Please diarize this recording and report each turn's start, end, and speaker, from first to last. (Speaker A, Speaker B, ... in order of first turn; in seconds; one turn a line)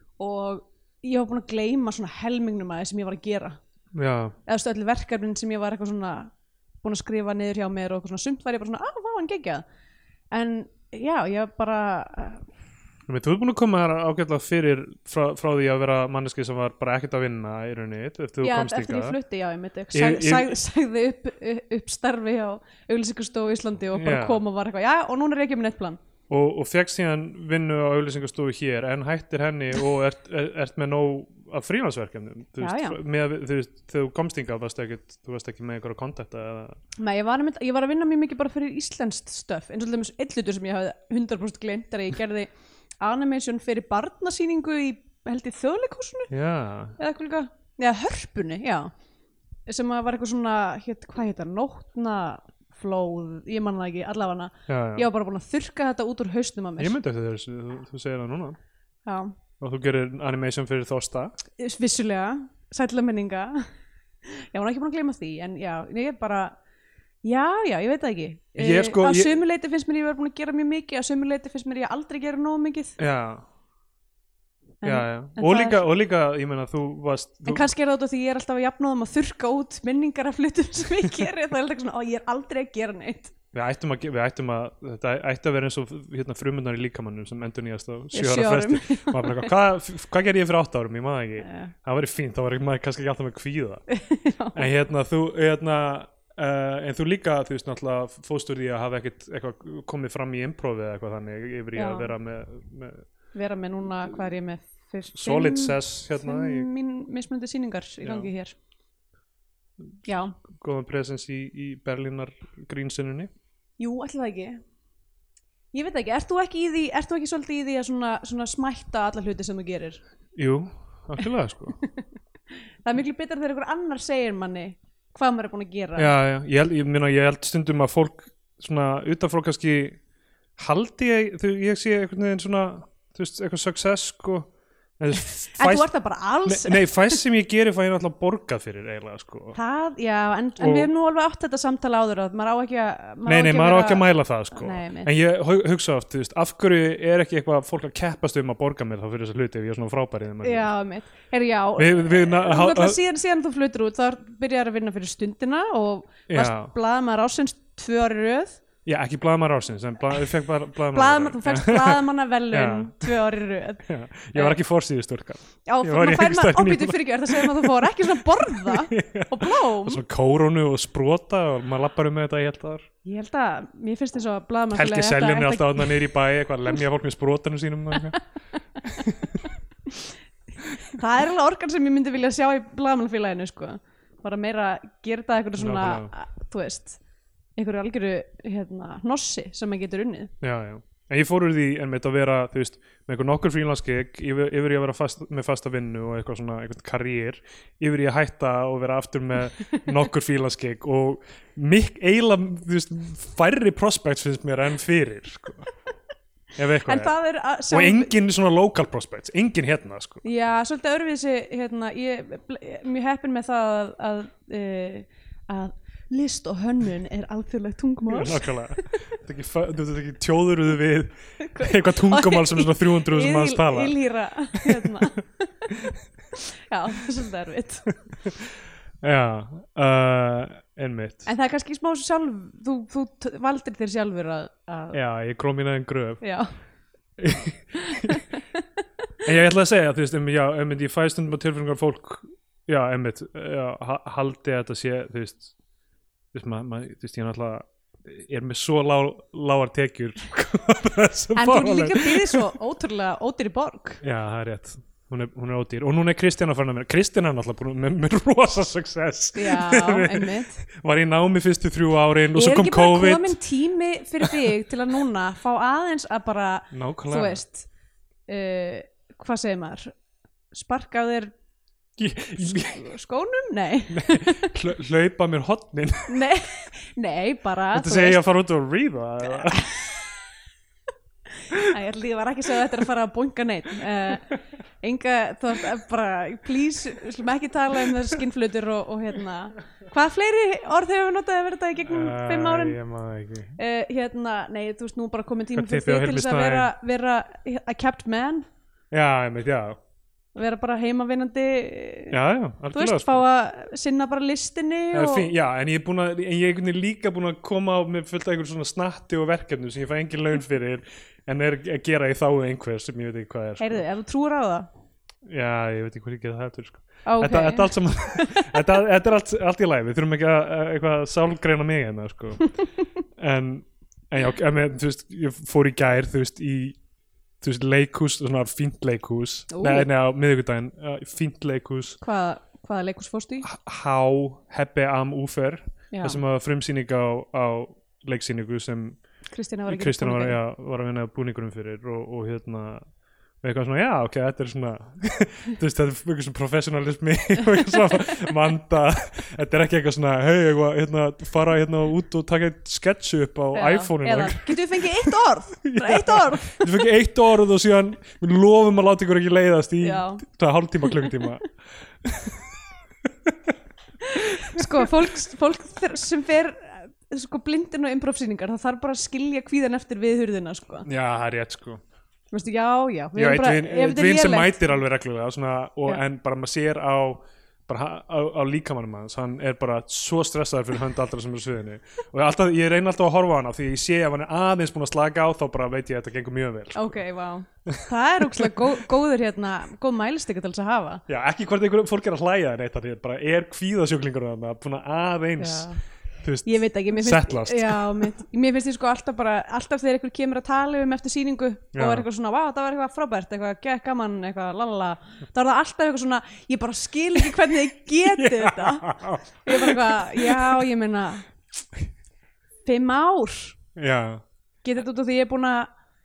Speaker A: 0.2-3.6
Speaker B: 3.9-4.4
Speaker A: 4.5-9.6
Speaker A: 10.3-12.5
Speaker B: 13.1-19.2
Speaker A: 18.4-26.0
Speaker B: 19.9-20.5
Speaker B: 24.0-24.4
Speaker B: 26.3-36.8
Speaker A: 32.6-33.0
Speaker A: 37.0-42.5
Speaker A: 43.0-46.3
Speaker B: 46.3-47.0
Speaker A: 47.0-48.9
Speaker A: 49.7-57.0
Speaker B: 54.7-55.1
Speaker B: 56.8-58.6
Speaker A: 59.1-59.4
Speaker B: 59.6-61.4
Speaker A: 61.6-63.6
Speaker A: 64.3-66.6
Speaker A: 67.2-73.0
Speaker B: 68.6-69.3
Speaker B: 73.0-73.4
Speaker A: 74.8-75.8
Speaker B: 74.8-77.7
Speaker A: 77.5-83.3
Speaker B: 83.5-93.8
Speaker A: 88.1-89.5
Speaker A: 91.4-91.7
Speaker A: 93.9-94.7
Speaker B: 94.5-103.0
Speaker A: 101.8-102.1
Speaker A: 103.3-108.5
Speaker B: 105.2-106.7
Speaker B: 108.0-108.3
Speaker A: 110.0-110.4
Speaker B: 110.4-113.3
Speaker A: 113.8-114.6
Speaker A: 115.7-120.0
Speaker B: 120.3-121.8
Speaker A: 122.8-126.1
Speaker B: 126.0-130.0
Speaker B: 130.6-135.9
Speaker A: 135.1-137.2
Speaker B: 136.4-139.6
Speaker A: 139.5-145.1
Speaker B: 140.6-140.9
Speaker B: 143.2-150.7
Speaker A: 150.4-158.6
Speaker B: 151.8-153.0
Speaker B: 156.3-156.7
Speaker B: 158.9-163.2
Speaker A: 160.9-164.6
Speaker B: 163.9-172.9
Speaker A: 165.7-170.0
Speaker A: 173.0-176.0
Speaker B: 174.7-178.2
Speaker B: 178.8-179.4
Speaker A: 180.9-187.0
Speaker B: 185.6-186.1
Speaker A: 187.6-190.3
Speaker B: 190.4-205.7
Speaker B: 206.6-207.1
Speaker A: 206.8-208.1
Speaker B: 207.7-210.2
Speaker A: 210.2-219.0
Speaker B: 218.1-223.9
Speaker A: 221.4-225.8
Speaker B: 224.6-225.0
Speaker A: 226.4-228.0
Speaker B: 229.0-231.3
Speaker A: 231.3-235.0
Speaker B: 234.9-236.2
Speaker A: 236.2-236.5
Speaker B: 237.2-238.2
Speaker A: 237.8-238.6
Speaker B: 239.2-245.5
Speaker B: 246.3-252.4
Speaker A: 251.3-254.0
Speaker B: 254.0-263.4
Speaker A: 259.4-260.6
Speaker A: 262.3-267.7
Speaker B: 266.7-267.4
Speaker A: 268.3-270.0
Speaker A: 270.5-271.3
Speaker B: 272.0-272.9
Speaker A: 272.5-274.6
Speaker B: 273.9-276.2
Speaker A: 276.1-278.2
Speaker B: 277.7-279.7
Speaker A: 279.4-279.9
Speaker A: 281.5-292.8
Speaker B: 291.9-293.6
Speaker A: 293.6-298.5
Speaker B: 295.5-296.7
Speaker B: 298.9-299.8
Speaker A: 300.4-302.2
Speaker B: 302.1-303.2
Speaker A: 302.7-305.3
Speaker B: 304.9-313.8
Speaker A: 313.6-314.7
Speaker B: 315.2-322.6
Speaker A: 317.1-318.6
Speaker B: 323.2-326.8
Speaker B: 327.4-332.0
Speaker A: 329.5-329.9
Speaker A: 332.0-333.5
Speaker B: 333.4-339.0
Speaker A: 335.9-336.2
Speaker A: 339.3-340.4
Speaker B: 339.7-342.9
Speaker B: 343.4-362.5
Speaker A: 353.5-356.7
Speaker A: 359.8-360.2
Speaker B: 363.1-363.5
Speaker A: 364.0-370.9
Speaker B: 364.4-364.9
Speaker B: 370.9-371.8
Speaker A: 372.3-374.8
Speaker B: 373.1-387.0
Speaker A: 386.7-391.0
Speaker B: 387.7-388.7
Speaker B: 391.1-395.7
Speaker A: 395.4-395.8
Speaker B: 396.2-398.1
Speaker A: 396.4-411.3
Speaker B: 401.8-402.1
Speaker B: 408.1-410.6
Speaker A: 412.6-413.6
Speaker B: 413.8-414.2
Speaker A: 414.6-415.7